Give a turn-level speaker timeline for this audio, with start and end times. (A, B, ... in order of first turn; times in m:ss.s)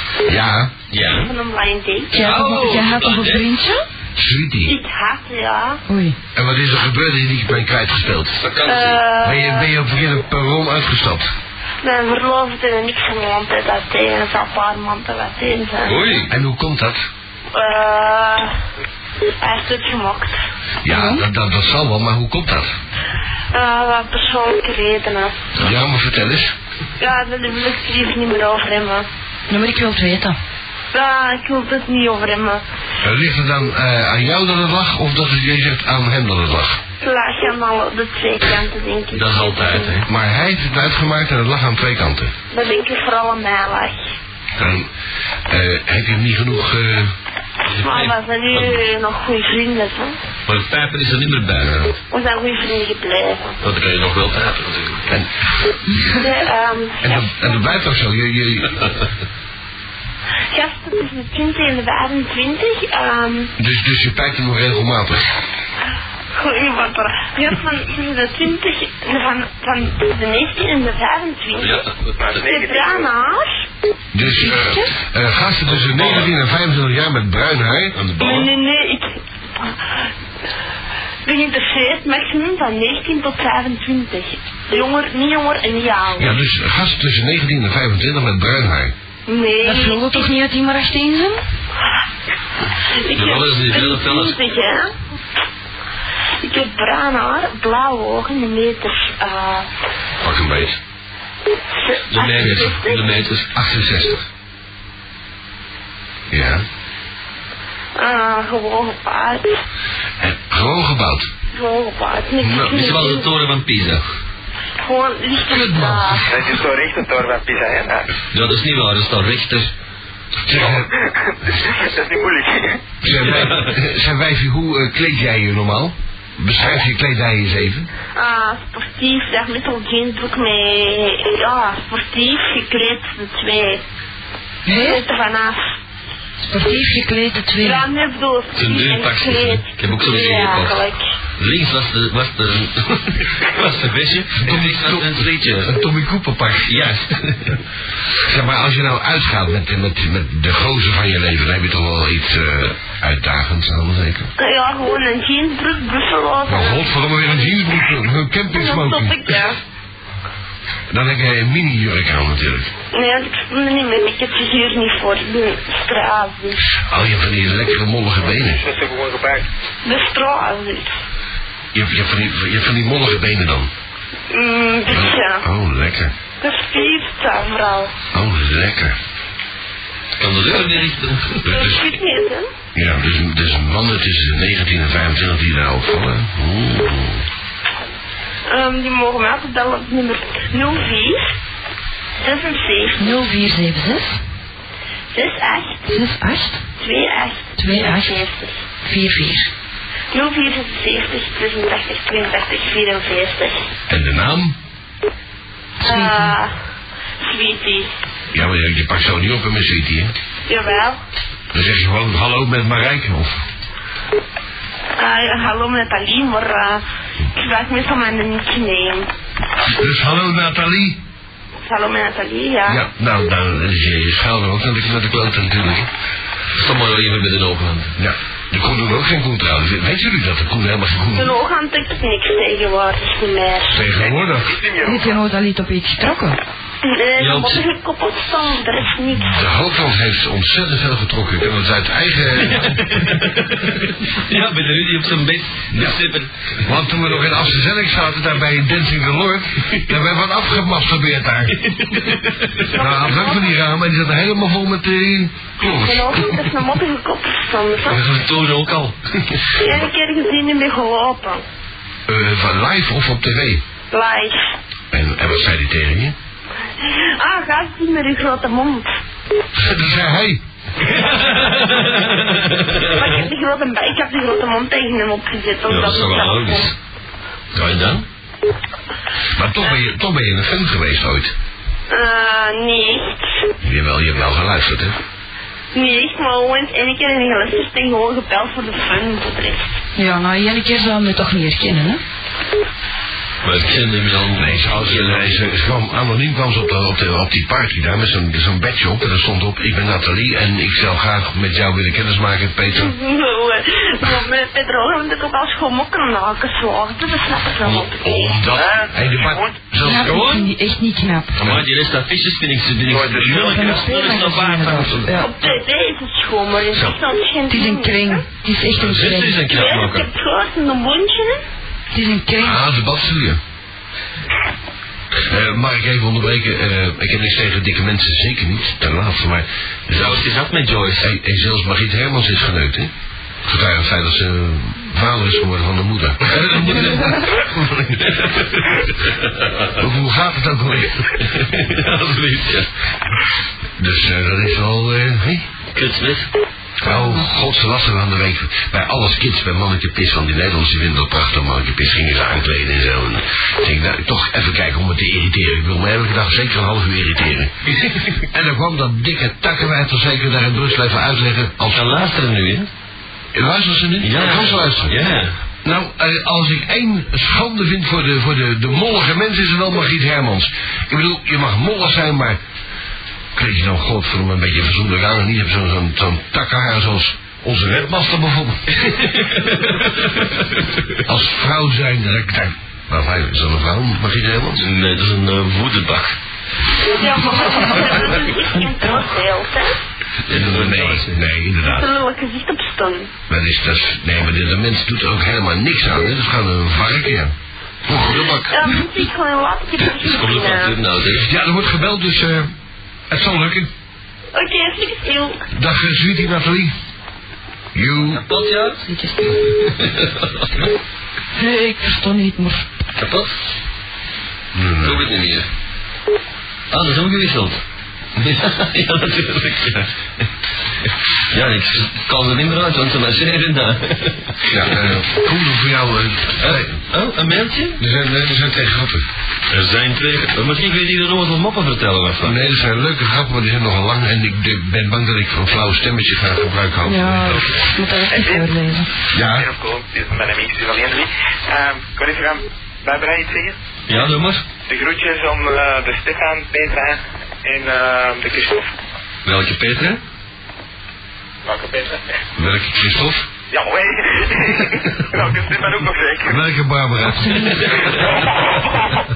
0:00.2-0:00.7 A
0:00.9-0:01.3 B
0:02.1-0:03.8 C
0:02.1-0:03.4 B
0:04.2-0:04.7 A
0:05.9-0:06.2 C
0:06.3-0:08.4 A
0:08.4-0:09.0 B
0:09.2-0:11.3 A
0:15.8-0:16.3 B
0:16.3-0:17.0 A
0:20.8-0:22.7 A
0:20.9-0:21.2 C
0:25.6-0:26.5 A
0:29.5-0:30.4 C
0:33.0-0:36.8 A
0:39.1-0:40.1 B
0:40.0-0:42.3 A
0:44.6-0:44.9 A
0:45.5-0:47.1 A
0:47.7-0:48.8 B
0:50.5-0:51.8 B
0:51.6-0:51.9 A
0:53.6-0:55.1 B
0:57.0-0:58.8 A
1:00.7-1:03.5 D
1:03.6-1:05.3 A
1:06.5-1:08.6 D
1:09.4-1:11.4 D
1:11.6-1:12.4 B
1:12.2-1:13.1 E
1:14.1-1:18.0 A
1:14.2-1:14.9 C
1:15.7-1:16.3 B
1:17.9-1:18.5 B
1:21.3-1:26.2 D
1:26.2-1:28.9 A
1:29.3-1:30.0 D
1:29.6-1:31.4 C
1:33.1-1:34.4 B
1:33.2-1:34.8 D
1:36.4-1:39.6 D
1:40.2-1:40.8 A
1:42.1-1:43.5 B
1:42.2-1:42.9 D
1:43.5-1:44.2 A
1:46.3-1:46.6 A
1:48.0-1:49.4 D
1:50.2-1:51.3 A
1:51.6-1:53.2 D
1:52.4-1:52.8 A
1:52.7-1:54.0 B
1:54.8-1:56.2 D
1:55.5-1:56.3 A
1:56.3-1:58.1 E
1:58.3-1:59.7 B
2:00.4-2:00.9 A
2:00.5-2:02.8 E
2:03.0-2:07.9 A
2:03.1-2:03.7 B
2:08.2-2:13.8 D
2:14.6-2:15.0 C
2:14.8-2:15.6 D
2:16.4-2:17.9 C
2:17.6-2:19.6 D
2:18.5-2:25.8 B
2:20.1-2:20.9 D
2:24.4-2:26.7 A
2:26.6-2:27.6 B
2:28.2-2:34.3 A
2:34.4-2:37.5 D
2:36.4-2:39.3 A
2:38.6-2:39.5 D
2:40.9-2:42.7 A
2:42.9-2:46.6 D
2:46.8-2:48.6 A
2:48.3-2:49.4 E
2:49.8-2:50.9 D
2:51.7-2:53.7 A
2:54.3-2:55.4 D
2:54.9-2:56.1 A
2:56.4-2:57.9 D
2:58.1-2:59.0 A
3:00.2-3:01.5 B
3:01.4-3:01.9 A
3:01.5-3:02.4 D
3:02.7-3:07.2 A
3:08.5-3:11.2 D
3:12.2-3:13.1 D
3:13.0-3:14.2 C
3:15.1-3:15.8 D
3:15.9-3:16.6 C
3:16.8-3:18.5 D
3:17.6-3:18.2 C
3:18.8-3:19.5 C
3:20.1-3:23.6 D
3:23.9-3:24.5 A
3:25.8-3:26.4 C
3:25.8-3:26.5 D
3:27.2-3:27.9 D
3:28.3-3:30.1 A
3:30.5-3:31.0 D
3:31.5-3:33.4 A
3:35.0-3:36.8 D
3:37.4-3:39.1 D
3:39.7-3:41.0 A
3:41.7-3:42.8 D
3:42.6-3:45.9 A
3:46.6-3:47.9 B
3:48.0-3:51.4 A
3:51.2-3:53.8 D
3:53.7-3:54.5 A
3:53.9-3:55.2 E
3:54.8-3:56.4 C
3:56.8-3:59.3 D
3:57.2-3:57.6 B
3:59.2-4:02.8 A
4:02.3-4:06.6 B
4:05.7-4:06.0 A
4:06.6-4:11.6 A
4:11.6-4:12.7 B
4:12.7-4:16.3 A
4:12.8-4:13.5 D
4:15.6-4:18.0 D
4:17.8-4:19.0 B
4:19.6-4:21.4 D
4:22.1-4:23.6 A
4:23.9-4:24.3 D
4:24.9-4:26.2 A
4:26.9-4:28.9 D
4:29.5-4:30.4 A
4:30.8-4:33.2 B
4:32.9-4:36.6 D
4:35.6-4:36.7 B
4:37.5-4:38.0 B
4:39.4-4:41.3 A
4:41.9-4:43.2 D
4:43.6-4:45.0 A
4:45.7-4:49.7 D
4:50.0-4:52.0 C
4:53.4-4:55.4 B
4:54.4-5:02.9 A
5:02.8-5:08.1 D
5:07.6-5:10.2 A
5:08.5-5:09.5 E
5:09.8-5:11.4 C
5:09.9-5:10.5 B
5:11.4-5:11.6 A
5:11.4-5:15.4 B
5:12.8-5:13.8 E
5:13.3-5:15.3 C
5:15.1-5:18.2 D
5:17.5-5:19.4 C
5:18.8-5:20.1 B
5:19.5-5:21.4 D
5:21.9-5:22.6 C
5:22.4-5:23.4 A
5:25.1-5:30.2 A
5:29.9-5:31.1 B
5:31.0-5:32.9 A
5:33.4-5:38.4 A
5:36.5-5:37.1 B
5:38.1-5:39.7 B
5:39.8-5:41.7 A
5:41.2-5:42.7 B
5:43.8-5:45.5 A
5:45.7-5:46.3 B
5:46.8-6:01.9 A
5:46.8-5:47.2 C
6:01.7-6:02.7 B
6:03.3-6:05.0 A
6:04.0-6:05.3 B
6:05.6-6:12.4 A
6:13.3-6:18.8 A
6:18.9-6:20.5 B
6:21.0-6:24.7 A
6:24.6-6:26.2 B
6:26.8-6:29.7 D
6:27.0-6:27.9 C
6:30.3-6:31.2 B
6:30.3-6:31.9 A
6:31.6-6:33.1 D
6:33.3-6:37.3 A
6:37.9-6:38.5 A
6:38.5-6:40.7 D
6:40.0-6:41.3 B
6:41.1-6:42.5 A
6:43.1-6:43.7 A
6:44.3-6:45.4 D
6:45.5-6:46.7 A
6:47.7-6:48.2 A
6:48.0-6:48.8 B
6:48.8-6:49.4 C
6:49.6-6:50.6 B
6:51.3-6:52.6 C
6:53.0-6:53.3 B
6:54.5-6:55.1 A
6:54.8-6:55.5 B
6:56.7-6:57.6 B
6:58.2-6:59.9 B
7:01.3-7:04.5 B
7:04.4-7:06.8 A
7:06.4-7:07.8 B
7:07.8-7:09.0 A
7:09.5-7:12.4 B
7:12.2-7:17.5 A
7:16.8-7:18.9 C
7:18.1-7:18.5 E
7:19.1-7:19.4 A
7:19.2-7:23.5 E
7:23.9-7:24.4 B
7:24.7-7:28.6 E
7:29.2-7:30.0 B
7:31.4-7:32.0 E
7:32.4-7:33.3 A
7:33.5-7:36.4 E
7:36.2-7:38.1 A
7:37.1-7:37.9 C